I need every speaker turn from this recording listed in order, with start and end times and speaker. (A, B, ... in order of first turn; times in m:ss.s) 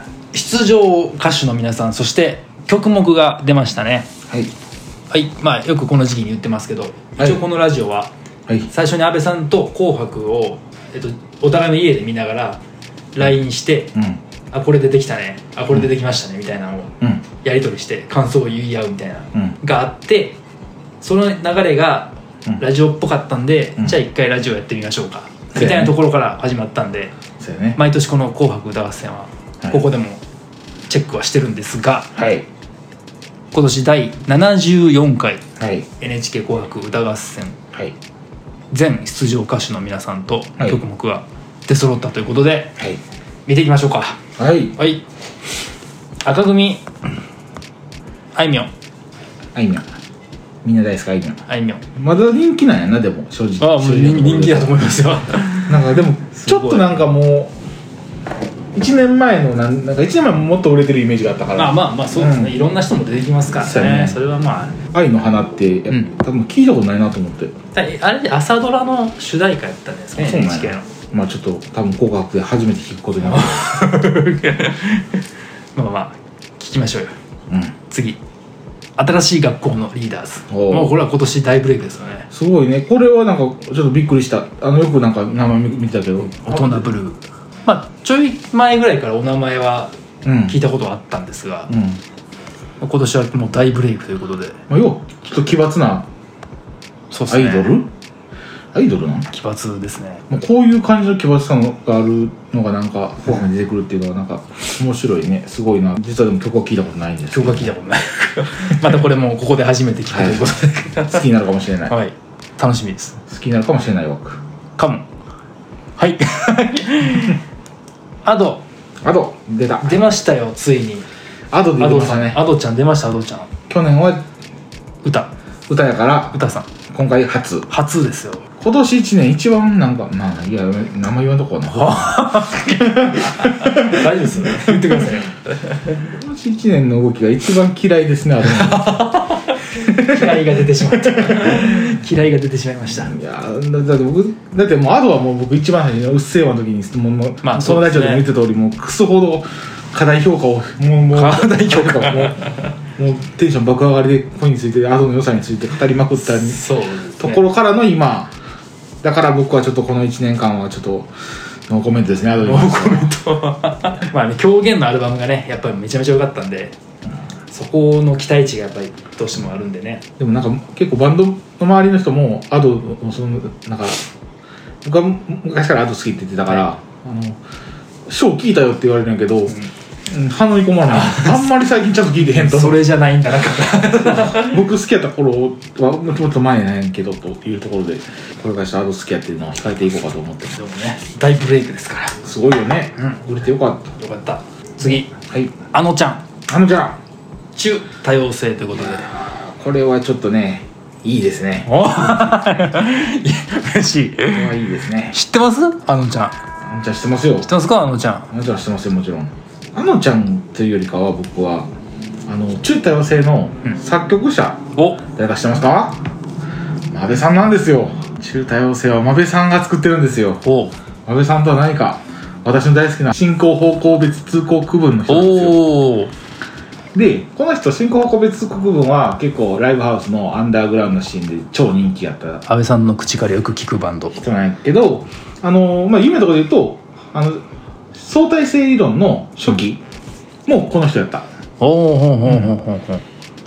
0:00.3-0:04.1 A
0:05.1-0:08.1 A
0:08.7-0:12.6 A
0:13.1-0:14.0 A
0:14.0-0:14.2 B
0:14.5-0:20.4 A
0:21.0-0:27.1 A
0:25.5-0:26.0 B
0:27.4-0:27.8 B
0:27.8-0:30.2 A
0:30.9-0:32.1 A
0:32.1-0:32.5 B
0:33.5-0:35.4 A
0:35.6-0:35.9 B
0:36.0-0:37.6 A
0:38.7-0:42.8 A
0:43.4-0:44.2 A
0:44.4-0:44.8 B
0:44.8-0:45.0 A
0:46.2-0:46.8 A
0:48.3-0:48.7 A
0:49.6-0:49.9 B
0:50.6-0:51.4 B
0:51.5-0:51.8 A
0:52.0-0:54.8 B
0:53.6-0:55.7 A
0:55.7-0:57.5 B
0:56.3-0:56.9 A
0:58.7-1:02.6 B
1:01.6-1:04.8 A
1:03.6-1:04.2 B
1:04.9-1:07.5 B
1:07.7-1:10.8 A
1:10.2-1:13.8 B
1:13.3-1:15.2 A
1:15.8-1:17.1 A
1:17.9-1:18.2 A
1:19.0-1:22.3 A
1:20.5-1:20.9 B
1:22.3-1:26.8 B
1:26.4-1:31.7 A
1:30.2-1:30.5 B
1:31.7-1:32.0 B
1:32.8-1:34.6 A
1:34.7-1:36.1 B
1:37.1-1:37.8 A
1:37.3-1:37.9 B
1:38.7-1:39.3 B
1:39.3-1:40.2 A
1:40.3-1:47.7 B
1:47.3-1:51.2 A
1:50.1-1:51.9 B
1:51.9-1:53.2 A
1:53.3-1:54.4 B
1:54.8-1:55.0 A
1:56.0-1:57.4 A
1:58.2-1:58.6 A
1:59.0-2:00.1 B
1:59.8-2:01.1 A
2:01.5-2:02.4 B
2:01.8-2:03.5 A
2:03.7-2:04.2 B
2:05.0-2:05.3 A
2:05.7-2:06.4 B
2:06.3-2:06.7 A
2:06.9-2:07.7 B
2:07.7-2:08.5 A
2:08.6-2:15.1 B
2:11.7-2:15.4 A
2:15.8-2:19.1 B
2:18.7-2:23.2 A
2:19.7-2:20.4 B
2:21.0-2:21.9 B
2:22.9-2:36.7 B
2:27.4-2:28.2 A
2:31.1-2:32.7 A
2:36.3-2:37.4 A
2:37.2-2:38.3 B
2:39.0-2:41.1 B
2:41.7-2:43.1 B
2:42.4-2:46.8 A
2:47.5-2:50.0 A
2:50.2-2:54.0 B
2:54.8-2:57.4 B
2:58.1-3:02.9 B
3:00.9-3:01.5 A
3:02.2-3:04.6 A
3:04.0-3:10.6 B
3:10.5-3:12.2 A
3:12.2-3:13.9 B
3:13.9-3:15.1 A
3:15.1-3:15.6 B
3:15.7-3:16.2 A
3:16.5-3:17.0 B
3:17.6-3:19.1 A
3:18.8-3:21.8 B
3:21.7-3:26.4 A
3:24.3-3:25.2 B
3:26.7-3:27.5 B
3:27.4-3:28.3 A
3:28.3-3:31.7 B
3:32.3-3:36.1 B
3:34.8-3:35.0 A
3:36.9-3:40.4 B
3:40.4-3:40.8 A
3:41.1-3:45.6 B
3:45.1-3:46.1 A
3:46.9-3:52.4 B
3:52.5-3:54.2 A
3:54.2-3:59.8 B
4:00.5-4:01.3 B
4:01.6-4:03.0 A